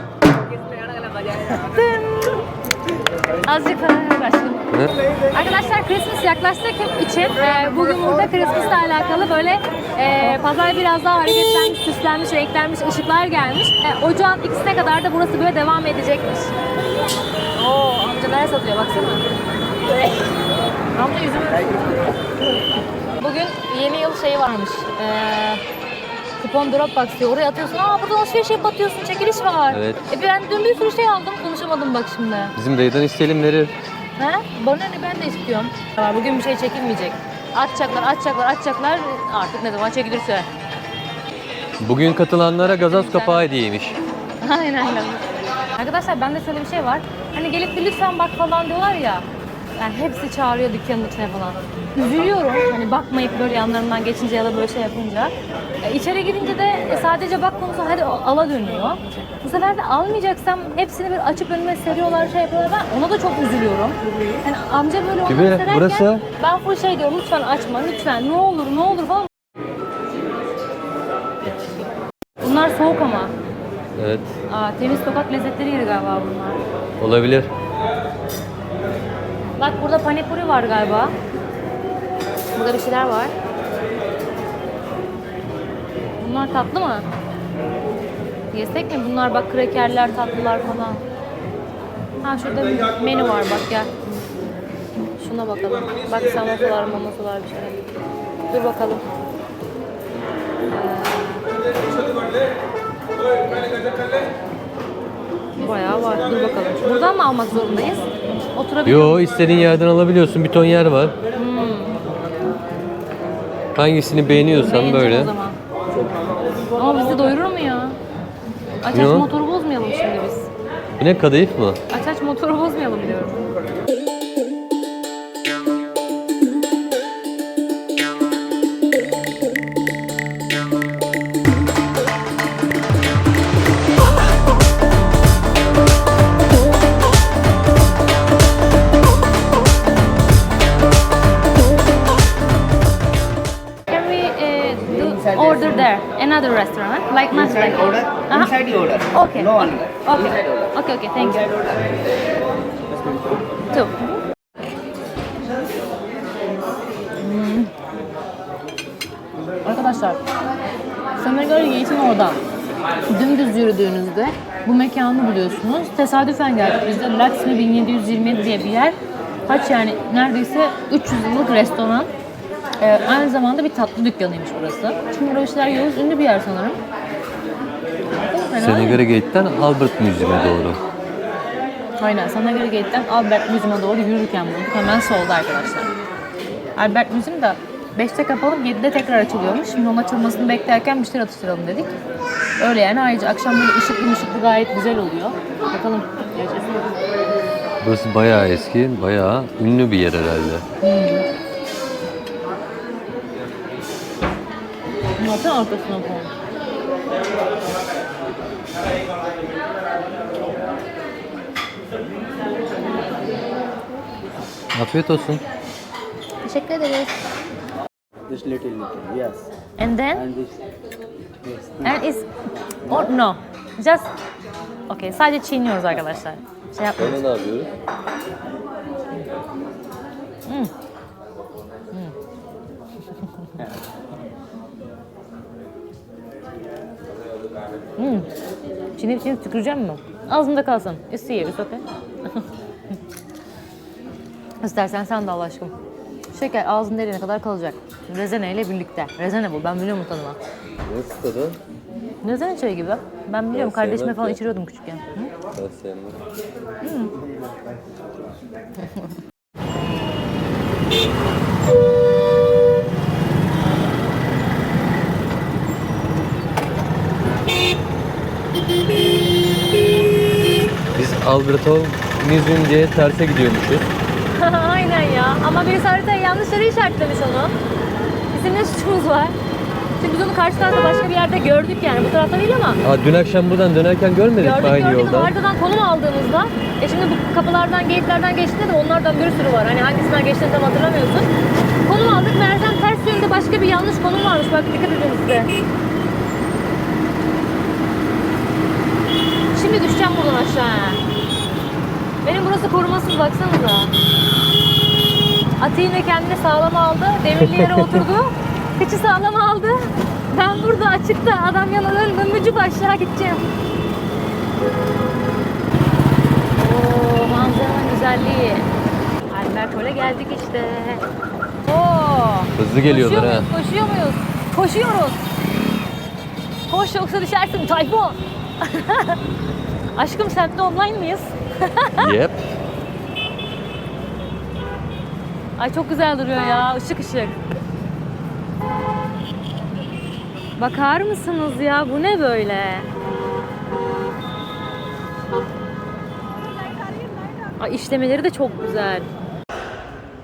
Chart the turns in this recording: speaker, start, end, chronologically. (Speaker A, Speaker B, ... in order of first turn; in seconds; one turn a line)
Speaker A: 1.3-2.4
Speaker A: 3.4-4.6
Speaker A: 5.3-16.5
Speaker A: 17.5-19.2
Speaker A: 20.9-22.2
Speaker A: 23.2-25.6
Speaker A: 26.4-32.5
Speaker B: 29.7-30.0
Speaker B: 32.5-33.7
Speaker A: 34.2-40.5
Speaker B: 41.8-44.0
Speaker A: 42.9-43.4
Speaker A: 44.4-45.2
Speaker A: 45.8-49.2
Speaker A: 49.8-69.3
Speaker B: 65.2-66.2
Speaker B: 71.4-71.8
Speaker A: 72.4-73.3
Speaker B: 74.0-74.4
Speaker A: 74.5-76.6
Speaker B: 77.0-77.5
Speaker A: 79.6-81.1
Speaker A: 82.5-83.3
Speaker A: 86.2-87.0
Speaker A: 88.5-91.0
Speaker A: 92.2-93.9
Speaker A: 95.2-97.8
Speaker A: 98.5-99.0
Speaker A: 100.7-101.4
Speaker A: 105.6-109.2
Speaker B: 108.8-111.2
Speaker A: 111.3-112.0
Speaker B: 113.7-115.3
Speaker A: 114.5-115.6
Speaker A: 116.8-118.0
Speaker A: 118.8-120.5
Speaker B: 118.9-119.3
Speaker B: 121.0-121.8
Speaker A: 121.9-123.4
Speaker A: 143.9-151.6
Speaker C: 147.9-149.7
Speaker C: 152.9-153.4
Speaker A: 153.7-154.1
Speaker A: 157.2-157.7
Speaker A: 159.7-160.2
Speaker A: 161.2-162.4
Speaker A: 163.1-168.9
Speaker A: 169.5-172.1
Speaker A: 172.8-176.8
Speaker A: 178.3-179.0
Speaker B: 178.6-180.8
Speaker A: 182.0-185.9
Speaker A: 186.8-191.9
Speaker A: 192.6-196.9
Speaker B: 197.8-200.7
Speaker A: 200.8-201.2
Speaker A: 205.2-206.3
Speaker B: 214.7-215.4
Speaker A: 216.4-217.2
Speaker C: 218.3-219.5
Speaker A: 219.8-220.2
Speaker C: 220.1-220.7
Speaker C: 221.4-222.0
Speaker A: 221.8-222.3
Speaker A: 222.9-224.1
Speaker A: 224.9-227.2
Speaker B: 226.9-227.7
Speaker A: 230.5-230.7
Speaker A: 238.0-238.3
Speaker A: 239.0-242.4
Speaker A: 244.6-245.7
Speaker A: 246.3-250.4
Speaker B: 250.8-251.6
Speaker A: 252.2-255.3
Speaker B: 253.5-254.4
Speaker B: 255.5-256.2
Speaker A: 256.8-257.1
Speaker B: 270.9-273.9
Speaker A: 274.3-277.5
Speaker A: 278.3-279.3
Speaker A: 280.0-282.8
Speaker B: 282.8-285.3
Speaker A: 284.4-291.3
Speaker A: 291.9-295.5
Speaker A: 299.5-301.0
Speaker A: 302.2-303.9
Speaker A: 305.6-313.5
Speaker B: 307.4-308.1
Speaker A: 316.6-318.7
Speaker A: 319.3-321.0
Speaker A: 321.6-325.2
Speaker B: 322.5-323.5
Speaker A: 326.7-329.2
Speaker A: 329.9-332.1
Speaker B: 332.0-332.4
Speaker A: 335.6-337.4
Speaker A: 340.6-342.9
Speaker A: 347.6-349.1